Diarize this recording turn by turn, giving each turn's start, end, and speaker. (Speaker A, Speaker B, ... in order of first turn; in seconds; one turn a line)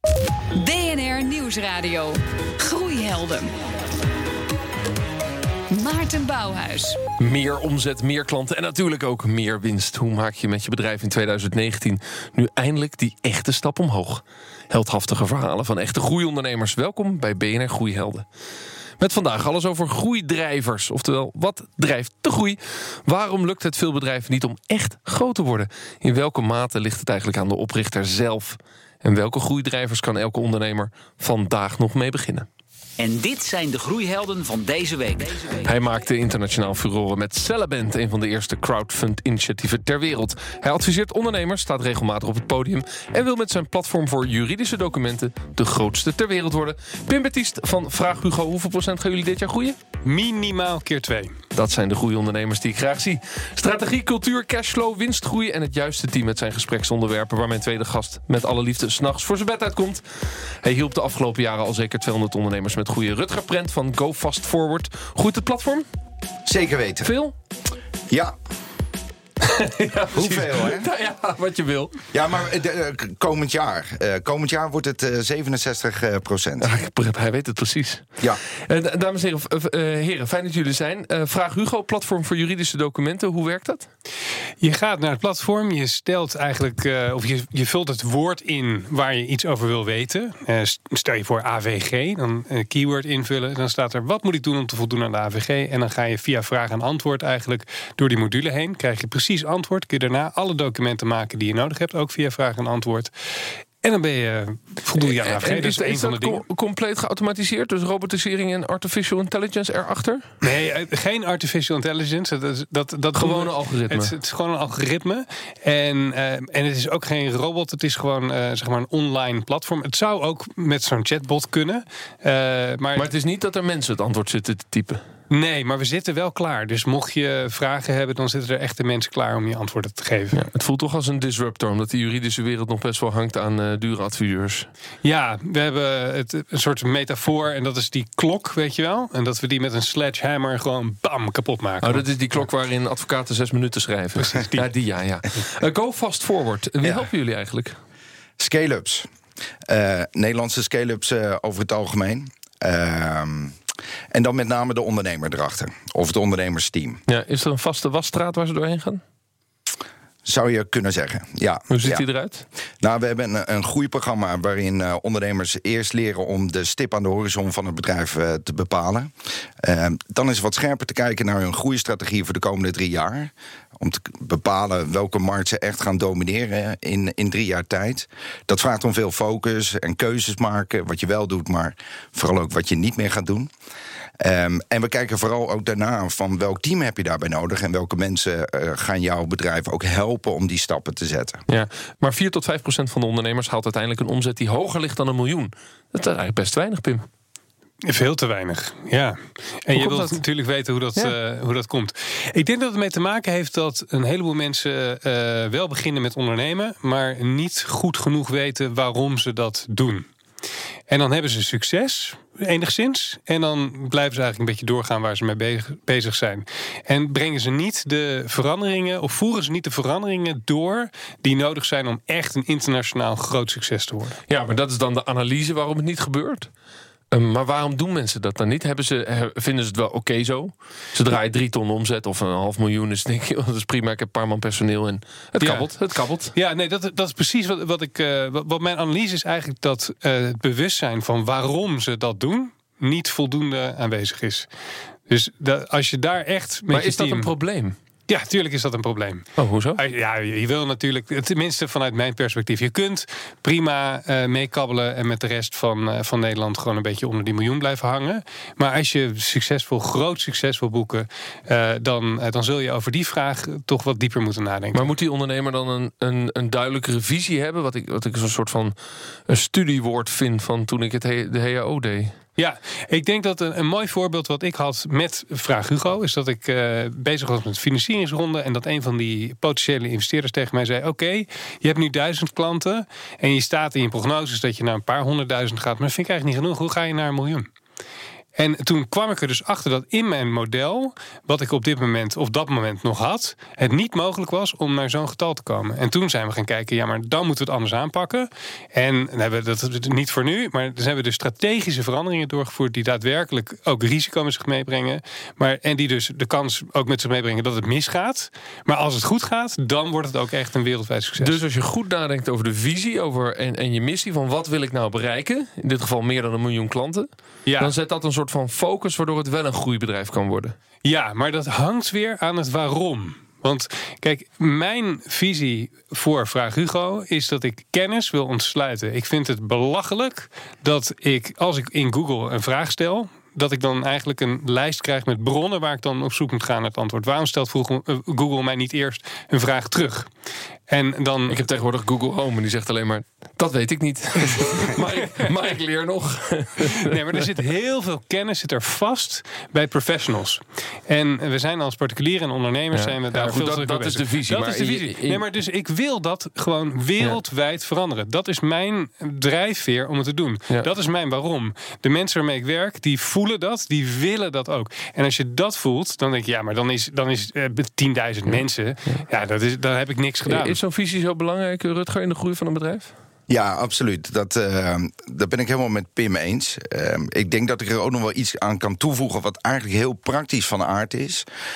Speaker A: 0.6-3.5
Speaker A: 5.7-7.0
Speaker B: 7.2-18.2
Speaker B: 19.0-32.5
Speaker C: 33.0-35.7
Speaker B: 35.6-49.8
Speaker D: 50.0-51.4
Speaker B: 51.5-60.0
Speaker B: 60.6-65.9
Speaker E: 66.5-67.1
Speaker B: 67.0-67.3
Speaker E: 68.1-68.3
Speaker B: 69.5-72.0
Speaker E: 70.1-70.9
Speaker E: 72.1-76.7
Speaker B: 76.6-78.1
Speaker B: 78.6-83.9
Speaker D: 84.6-103.1
Speaker D: 103.8-106.4
Speaker B: 105.0-110.3
Speaker D: 110.4-123.1
Speaker B: 113.2-114.1
Speaker B: 123.0-125.0
Speaker D: 125.3-130.4
Speaker B: 130.3-134.7
Speaker D: 135.0-142.0
Speaker B: 141.8-147.8
Speaker D: 144.2-144.7
Speaker E: 146.8-147.1
Speaker E: 148.4-149.1
Speaker E: 149.7-153.6
Speaker E: 154.1-157.0
Speaker B: 157.1-159.0
Speaker E: 160.3-162.1
Speaker B: 161.7-162.4
Speaker E: 162.8-183.5
Speaker E: 184.2-191.4
Speaker B: 191.5-197.1
Speaker D: 197.9-210.1
Speaker B: 199.7-200.2
Speaker D: 210.9-224.2
Speaker B: 224.3-226.5
Speaker B: 227.1-236.3
Speaker D: 235.4-235.7
Speaker D: 236.3-244.5
Speaker D: 245.1-247.3
Speaker B: 246.7-247.8
Speaker D: 248.1-249.3
Speaker B: 249.4-249.8
Speaker D: 249.8-264.9
Speaker B: 264.7-268.8
Speaker B: 269.3-272.2
Speaker D: 272.4-287.5
Speaker D: 288.4-311.4
Speaker B: 311.2-320.6
Speaker D: 317.5-317.7
Speaker D: 320.8-340.1
Speaker D: 340.7-341.5
Speaker B: 341.3-347.2
Speaker D: 346.8-370.6
Speaker B: 352.7-355.2
Speaker B: 368.3-369.0
Speaker B: 370.3-372.9
Speaker E: 373.3-381.3